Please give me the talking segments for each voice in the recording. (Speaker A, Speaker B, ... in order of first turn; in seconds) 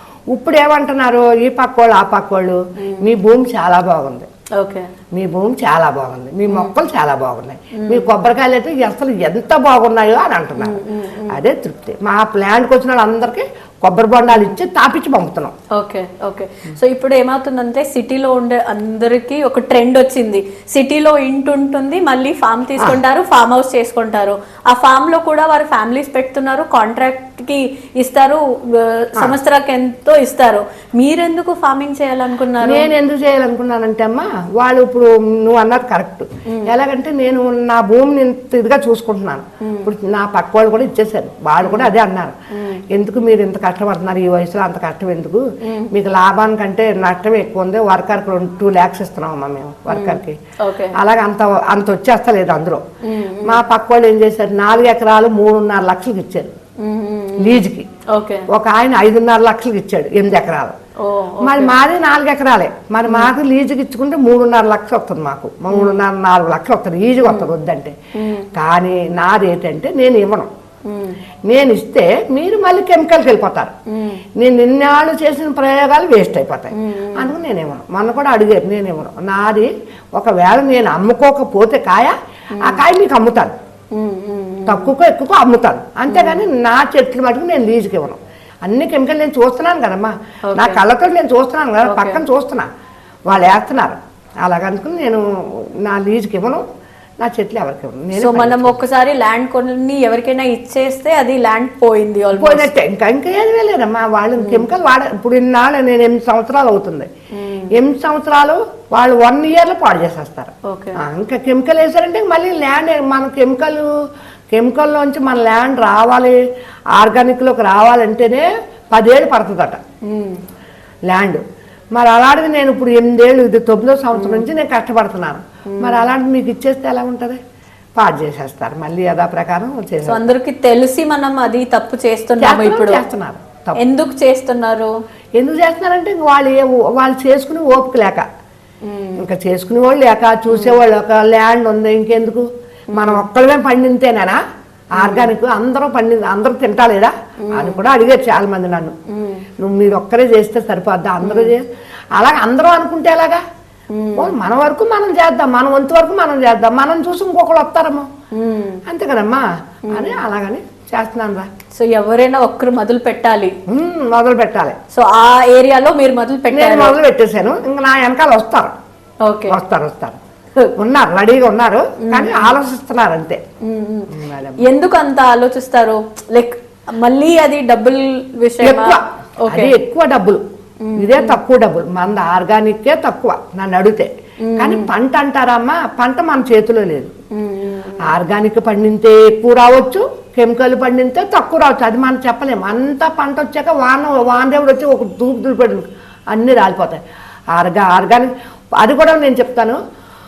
Speaker A: 0.3-4.3, 5.1-15.5, 32.6-42.4, 42.9-50.4, 50.9-52.8, 53.4-56.5, 57.4-57.9, 58.5-60.7, 61.4-67.9, 68.5-70.5, 71.5-73.7, 74.4-83.5, 84.7-92.7, 93.3-96.6, 97.2-98.8, 102.3-107.1, 107.7-113.9, 114.5-116.4, 116.9-119.8, 121.1-121.4, 121.9-127.4, 128.0-130.3, 132.4-133.8, 135.4-138.2, 139.2-144.4, 144.9-148.9, 149.6-151.6, 152.1-153.4, 154.2-158.1, 158.8-161.5, 163.7-164.8, 166.5-168.7, 169.5-170.2, 170.8-173.4, 174.1-174.6, 178.6-180.4, 181.0-187.1, 188.0-197.0, 197.5-199.8
Speaker B: 2.8-3.1, 4.6-4.9, 7.8-8.1, 10.6-11.4, 15.7-32.9, 39.6-39.9, 41.6-41.9, 42.5-42.8, 45.6-45.9, 49.9-51.0, 53.0-53.6, 56.8-58.5, 61.0-61.8, 63.1-63.3, 65.7-66.0, 67.2-67.5, 68.2-68.5, 70.8-71.2, 73.9-74.2, 76.7-77.3, 82.5-82.8, 83.9-84.9, 86.1-86.4, 90.5-90.8, 91.8-92.2, 98.1-102.7, 104.4-104.7, 107.3-107.7, 110.6-111.0, 120.0-120.4, 124.1-124.5, 125.7-126.0, 130.1-133.0, 133.8-134.9, 138.8-139.2, 140.5-140.8, 142.9-143.2, 145.0-145.3, 147.4-147.8, 149.1-149.4, 151.2-151.5, 153.9-154.3, 158.3-158.8, 159.9-160.2, 161.7-163.6, 164.9-167.0, 169.2-169.6, 172.1-172.5, 173.6-179.7, 180.8-181.4, 184.4-184.9, 187.3-188.1